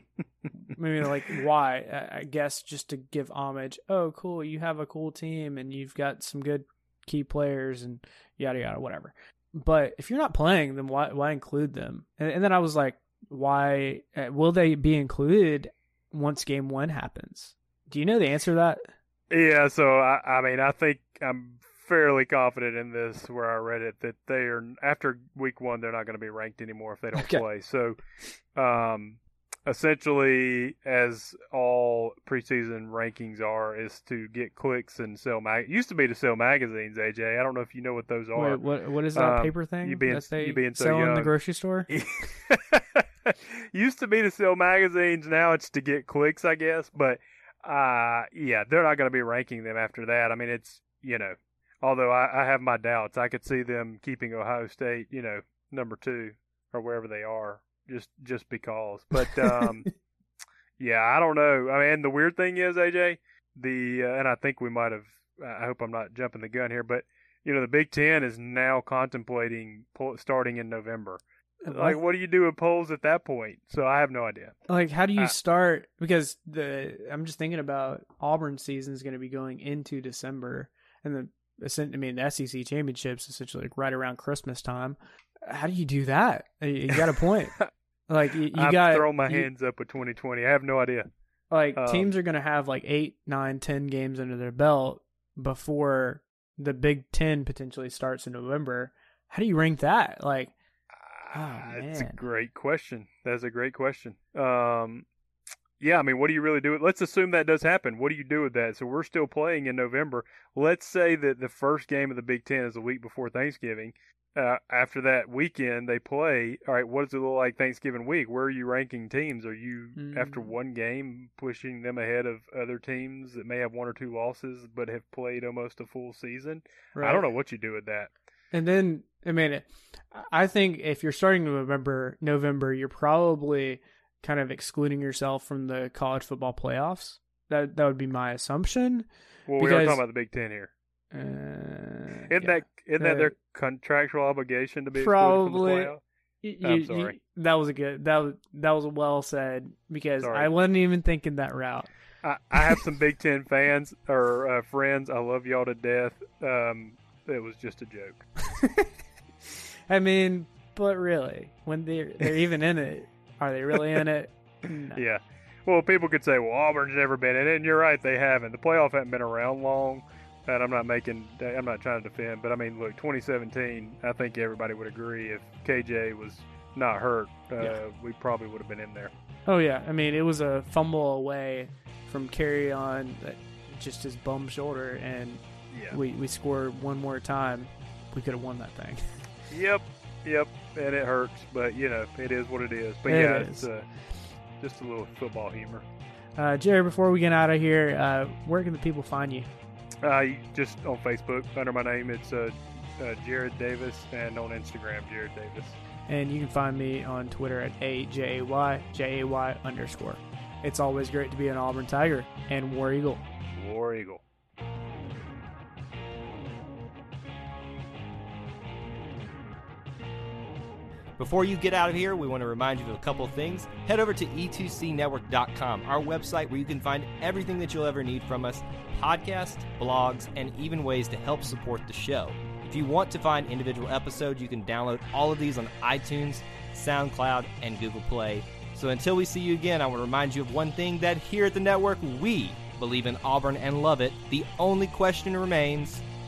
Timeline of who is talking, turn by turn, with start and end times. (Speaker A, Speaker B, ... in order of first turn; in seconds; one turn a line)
Speaker A: 0.7-18.9
Speaker B: 19.3-28.0
Speaker A: 27.2-27.4
Speaker B: 28.6-38.6
Speaker A: 38.4-41.9
Speaker B: 39.1-41.3
Speaker B: 41.9-59.9
Speaker A: 59.2-59.9
Speaker B: 60.8-74.5
Speaker A: 71.6-72.0
Speaker A: 74.7-87.6
Speaker A: 88.1-89.5
Speaker B: 88.5-91.1
Speaker A: 91.5-100.5
Speaker B: 91.8-92.1
Speaker B: 101.0-105.0
Speaker A: 101.3-102.2
Speaker B: 105.8-128.1
Speaker A: 120.0-120.5
Speaker A: 127.0-127.3
Speaker A: 128.5-139.1
Speaker B: 139.5-140.7
Speaker A: 139.6-140.0
Speaker A: 141.1-143.3
Speaker B: 142.3-146.0
Speaker A: 145.0-151.9
Speaker B: 146.6-147.2
Speaker B: 150.2-150.5
Speaker B: 152.2-158.3
Speaker A: 158.5-158.9
Speaker A: 159.9-165.0
Speaker B: 164.9-179.1
Speaker A: 179.5-189.0
Speaker B: 185.7-186.0
Speaker B: 189.5-193.9
Speaker A: 193.1-193.7
Speaker B: 194.6-195.9
Speaker A: 196.4-199.5
Speaker B: 200.0-205.8
Speaker A: 206.1-213.2
Speaker B: 213.6-214.2
Speaker C: 221.2-246.0